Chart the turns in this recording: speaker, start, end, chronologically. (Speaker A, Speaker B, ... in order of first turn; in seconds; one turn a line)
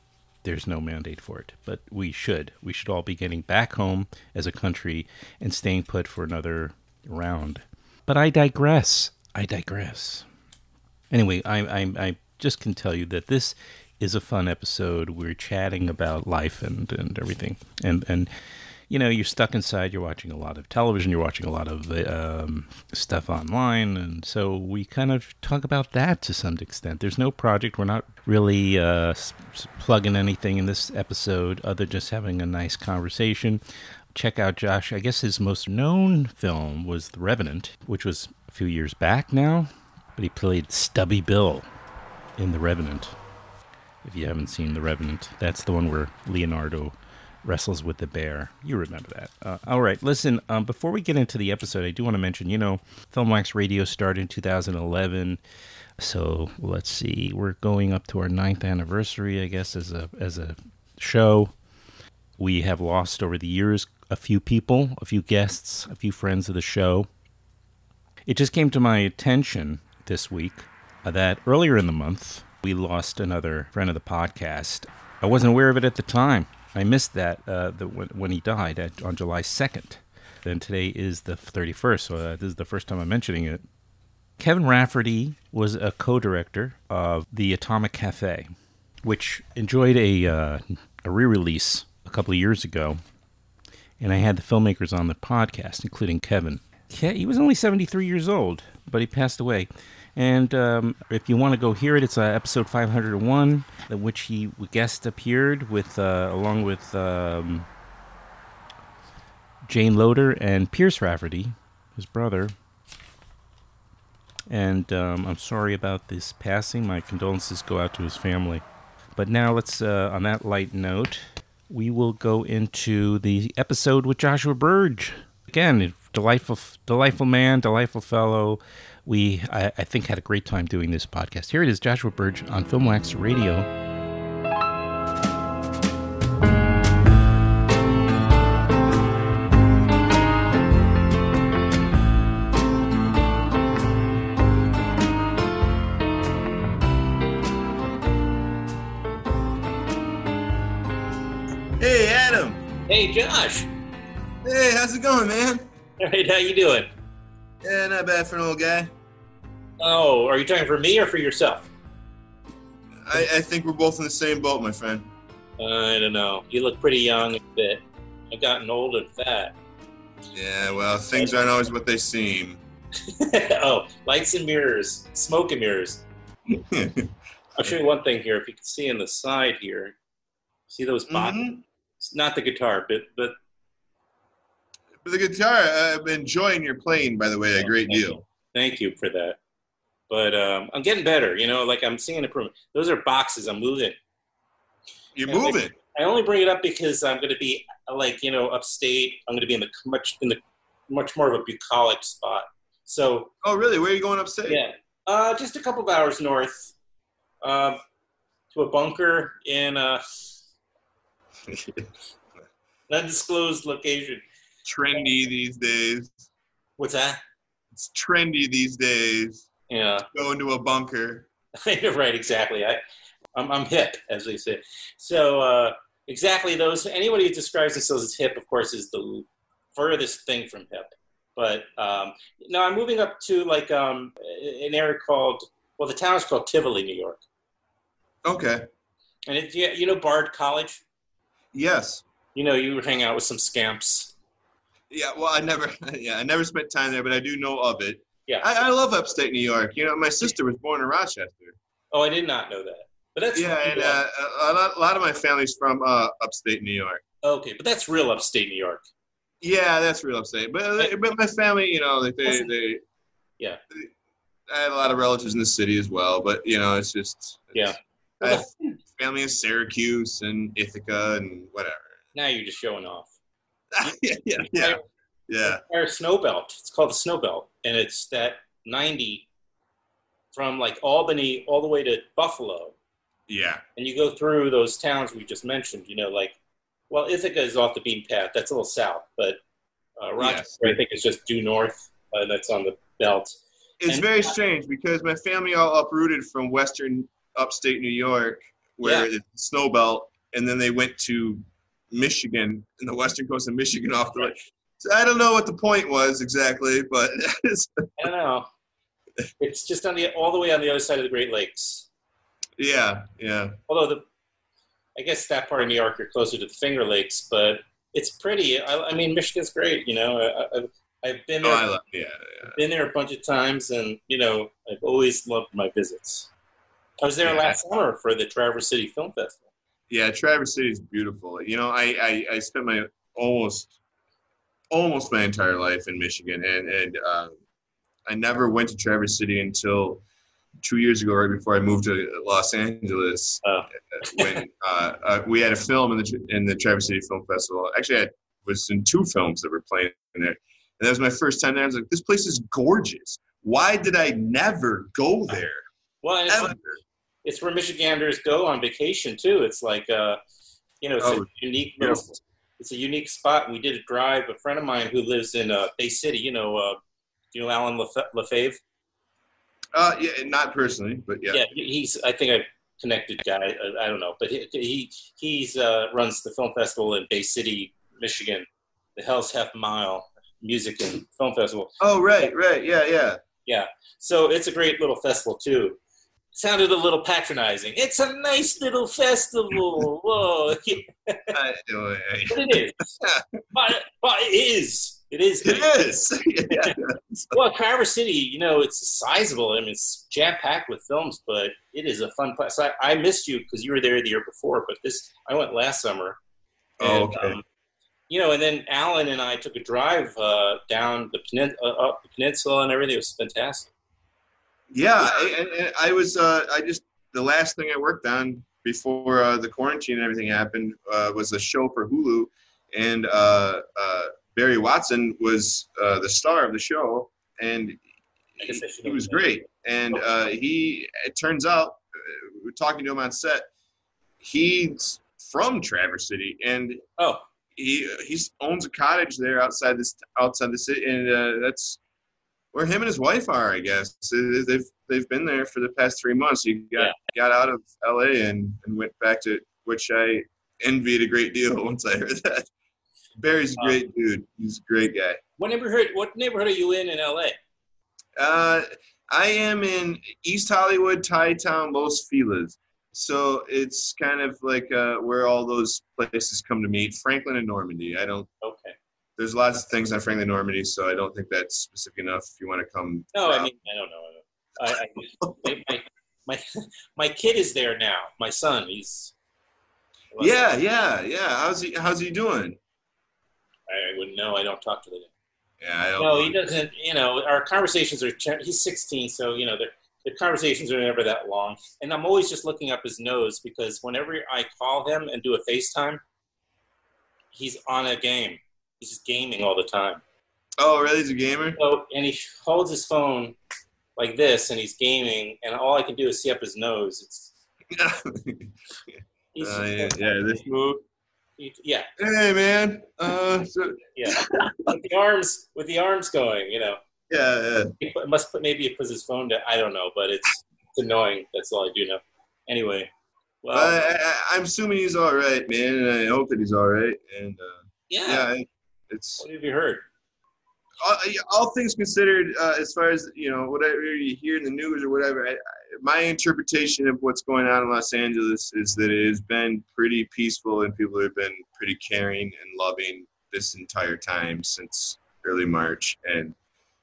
Speaker A: 0.4-10.2
Speaker A: 11.1-33.6
Speaker A: 34.1-41.7
Speaker A: 42.4-43.2
Speaker A: 44.0-55.4
Speaker A: 56.0-61.5
Speaker A: 62.4-67.1
Speaker A: 68.2-83.6
Speaker A: 84.4-93.0
Speaker A: 94.0-107.7
Speaker A: 109.7-112.5
Speaker A: 114.5-118.6
Speaker A: 119.2-133.7
Speaker B: 151.8-152.7
Speaker C: 152.9-153.7
Speaker B: 154.4-155.7
Speaker C: 156.0-156.9
Speaker B: 157.6-158.9
Speaker C: 159.8-161.7
Speaker B: 163.0-165.1
Speaker C: 165.6-169.6
Speaker B: 170.3-172.6
Speaker C: 173.1-176.0
Speaker B: 176.5-177.1
Speaker C: 177.6-179.9
Speaker C: 180.7-181.4
Speaker B: 181.1-181.6
Speaker C: 182.0-183.3
Speaker B: 185.0-188.2
Speaker C: 187.6-189.4
Speaker C: 190.1-194.0
Speaker B: 195.2-195.7
Speaker C: 195.3-203.3
Speaker B: 203.4-204.6
Speaker C: 204.5-206.7
Speaker C: 207.4-207.8
Speaker C: 208.5-210.0
Speaker B: 211.5-211.9
Speaker C: 212.9-214.2
Speaker B: 214.7-216.3
Speaker C: 216.8-217.2
Speaker B: 217.7-219.5
Speaker C: 219.7-220.1
Speaker B: 220.1-221.3
Speaker C: 221.6-222.8
Speaker C: 223.3-237.2
Speaker B: 238.2-238.7
Speaker C: 239.2-240.8
Speaker B: 241.5-242.0
Speaker C: 242.3-244.1
Speaker B: 244.9-251.6
Speaker C: 251.9-254.0
Speaker B: 253.3-257.0
Speaker C: 257.2-258.9
Speaker B: 259.4-262.8
Speaker C: 260.8-261.1
Speaker C: 262.2-262.5
Speaker B: 264.5-272.0
Speaker C: 267.5-268.8
Speaker C: 272.1-273.1
Speaker B: 273.7-275.6
Speaker C: 273.8-274.9
Speaker C: 275.4-279.2
Speaker C: 280.3-282.8
Speaker B: 283.3-283.6
Speaker C: 283.8-286.4
Speaker C: 286.9-289.4
Speaker C: 290.0-294.3
Speaker B: 290.2-290.8
Speaker B: 293.8-307.9
Speaker C: 298.8-299.1
Speaker C: 308.0-308.5
Speaker C: 309.4-311.9
Speaker B: 312.6-313.6
Speaker C: 313.7-314.0
Speaker C: 315.0-321.6
Speaker B: 321.4-322.6
Speaker C: 322.5-326.3
Speaker C: 327.0-329.4
Speaker B: 327.2-327.6
Speaker B: 329.9-333.8
Speaker B: 334.7-337.4
Speaker B: 338.1-340.0
Speaker B: 340.6-355.6
Speaker C: 343.4-344.4
Speaker C: 356.0-356.6
Speaker B: 356.3-356.8
Speaker C: 357.2-360.2
Speaker C: 360.8-366.8
Speaker B: 361.0-362.0
Speaker C: 367.3-368.6
Speaker B: 369.7-371.4
Speaker C: 371.3-381.8
Speaker B: 381.8-383.2
Speaker C: 383.4-385.8
Speaker C: 386.3-391.4
Speaker B: 391.3-393.4
Speaker C: 392.3-393.0
Speaker C: 393.5-395.8
Speaker B: 395.4-397.4
Speaker C: 396.5-396.8
Speaker C: 397.3-406.2
Speaker C: 406.8-407.4
Speaker B: 406.8-407.4
Speaker C: 408.1-413.7
Speaker B: 414.7-427.8
Speaker C: 415.0-415.3
Speaker C: 428.4-429.4
Speaker B: 428.4-433.5
Speaker B: 434.2-436.8
Speaker C: 437.0-437.2
Speaker B: 437.6-441.8
Speaker B: 442.5-452.5
Speaker B: 453.1-455.2
Speaker C: 455.4-457.4
Speaker B: 458.2-468.3
Speaker C: 468.4-468.8
Speaker B: 469.2-473.5
Speaker C: 473.1-479.1
Speaker B: 475.2-475.5
Speaker C: 480.1-480.5
Speaker B: 480.2-482.6
Speaker C: 483.7-485.1
Speaker B: 485.6-486.4
Speaker C: 486.0-496.0
Speaker C: 497.3-500.0
Speaker B: 500.6-501.6
Speaker C: 501.6-503.4
Speaker C: 503.9-507.3
Speaker B: 507.7-510.8
Speaker C: 509.3-510.4
Speaker C: 511.4-511.9
Speaker B: 512.0-514.7
Speaker C: 513.9-516.8
Speaker B: 517.1-517.7
Speaker C: 517.8-522.9
Speaker C: 523.4-523.9
Speaker B: 523.5-529.2
Speaker C: 527.9-528.3
Speaker C: 529.2-529.8
Speaker B: 530.8-546.4